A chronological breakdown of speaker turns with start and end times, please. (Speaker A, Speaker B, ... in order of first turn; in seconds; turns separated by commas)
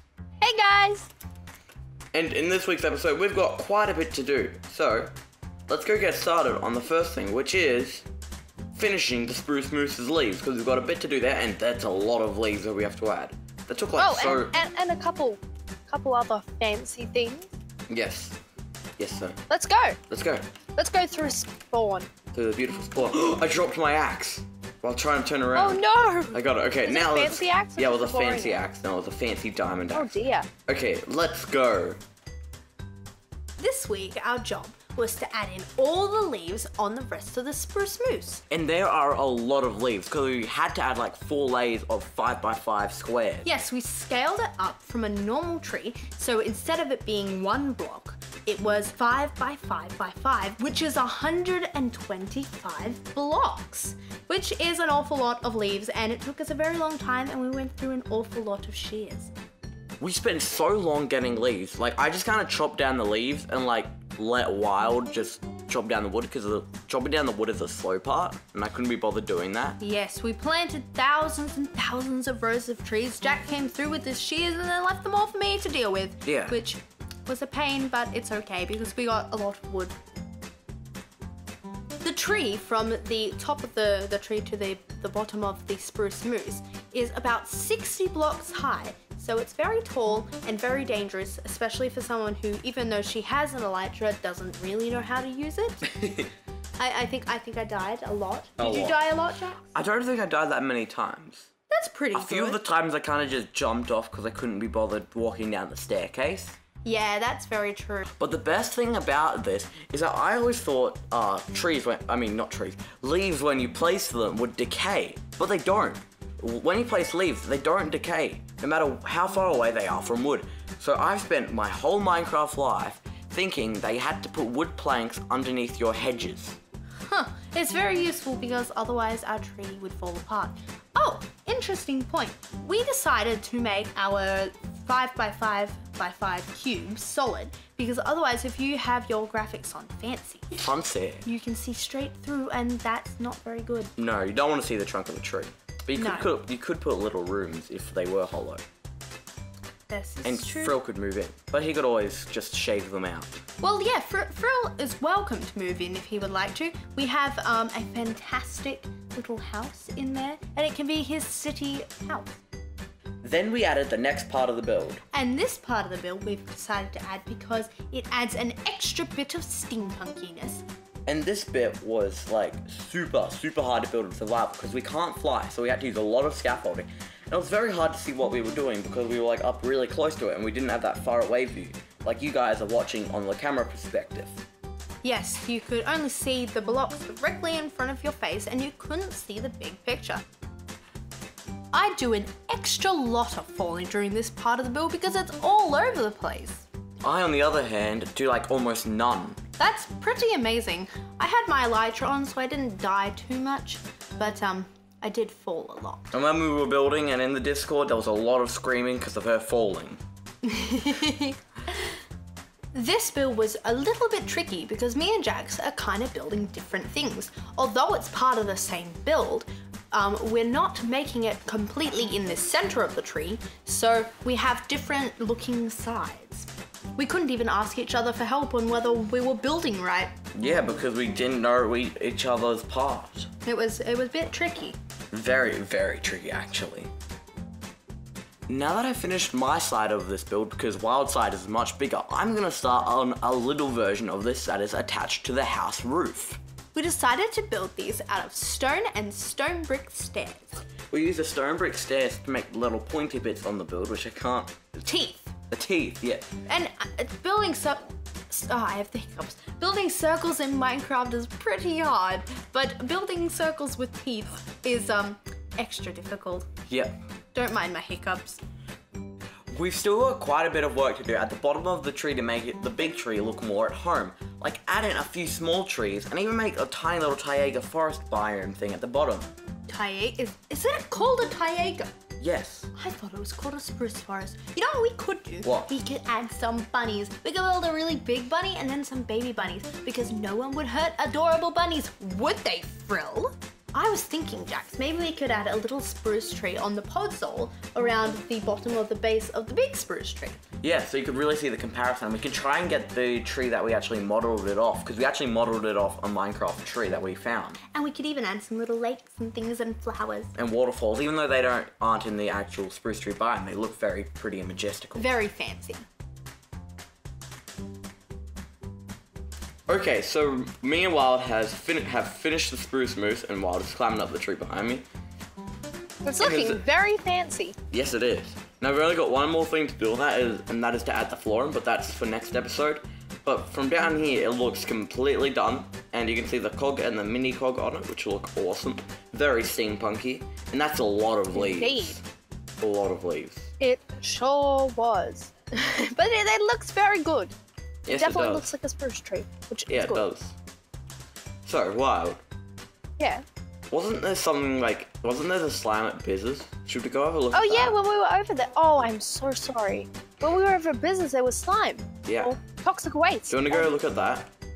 Speaker A: 0.4-1.1, Speaker B: 2.1-5.1, Speaker B: 5.7-8.1, Speaker B: 8.7-14.5, Speaker A: 14.0-17.5, Speaker B: 17.9-18.4, Speaker B: 19.0-19.4, Speaker A: 19.5-20.0, Speaker B: 20.1-20.5, Speaker A: 20.8-22.1, Speaker B: 22.3-32.0, Speaker A: 25.5-28.6, Speaker A: 29.9-30.5, Speaker C: 33.6-38.4, Speaker B: 38.5-43.5, Speaker C: 43.4-59.3, Speaker B: 60.0-69.8, Speaker C: 69.8-80.0, Speaker B: 76.2-76.6, Speaker C: 82.0-95.9, Speaker C: 96.8-99.7, Speaker B: 98.6-99.0, Speaker B: 99.7-101.5, Speaker C: 101.7-102.6, Speaker B: 102.1-106.6, Speaker C: 106.8-108.1, Speaker B: 108.2-126.6, Speaker C: 127.1-140.7, Speaker B: 140.6-141.2, Speaker C: 141.2-143.9, Speaker B: 144.0-148.6, Speaker C: 145.9-146.3, Speaker C: 149.9-150.8, Speaker B: 150.2-153.4, Speaker C: 153.6-162.4, Speaker B: 163.2-165.0, Speaker C: 165.1-170.6, Speaker B: 171.1-184.4, Speaker C: 185.0-190.2, Speaker C: 191.7-196.7, Speaker B: 197.0-199.4, Speaker C: 199.6-206.1, Speaker B: 206.1-210.0, Speaker C: 210.4-211.4, Speaker C: 212.7-230.1, Speaker B: 230.3-233.3, Speaker C: 233.4-234.8, Speaker B: 235.1-236.9, Speaker B: 238.5-246.4, Speaker C: 246.7-250.6, Speaker B: 250.9-254.8, Speaker C: 254.8-255.3, Speaker B: 255.5-256.3, Speaker C: 256.4-266.5, Speaker B: 266.7-267.0, Speaker C: 267.3-268.4, Speaker B: 269.5-279.3, Speaker C: 279.7-281.9, Speaker B: 282.2-282.7, Speaker C: 282.7-300.4, Speaker B: 285.4-285.7, Speaker B: 300.6-307.6, Speaker C: 307.7-310.3, Speaker B: 310.4-315.1, Speaker C: 314.9-315.8, Speaker B: 319.7-324.8, Speaker A: 326.0-327.5, Speaker B: 326.2-326.6, Speaker B: 327.7-342.0, Speaker A: 341.3-341.9, Speaker B: 342.6-343.5, Speaker A: 343.6-347.3, Speaker B: 347.9-348.5, Speaker A: 347.9-350.0, Speaker B: 349.7-350.4, Speaker B: 351.4-352.2, Speaker A: 353.0-353.2, Speaker B: 353.7-357.8, Speaker A: 357.3-363.7, Speaker B: 362.1-362.4, Speaker B: 363.3-364.3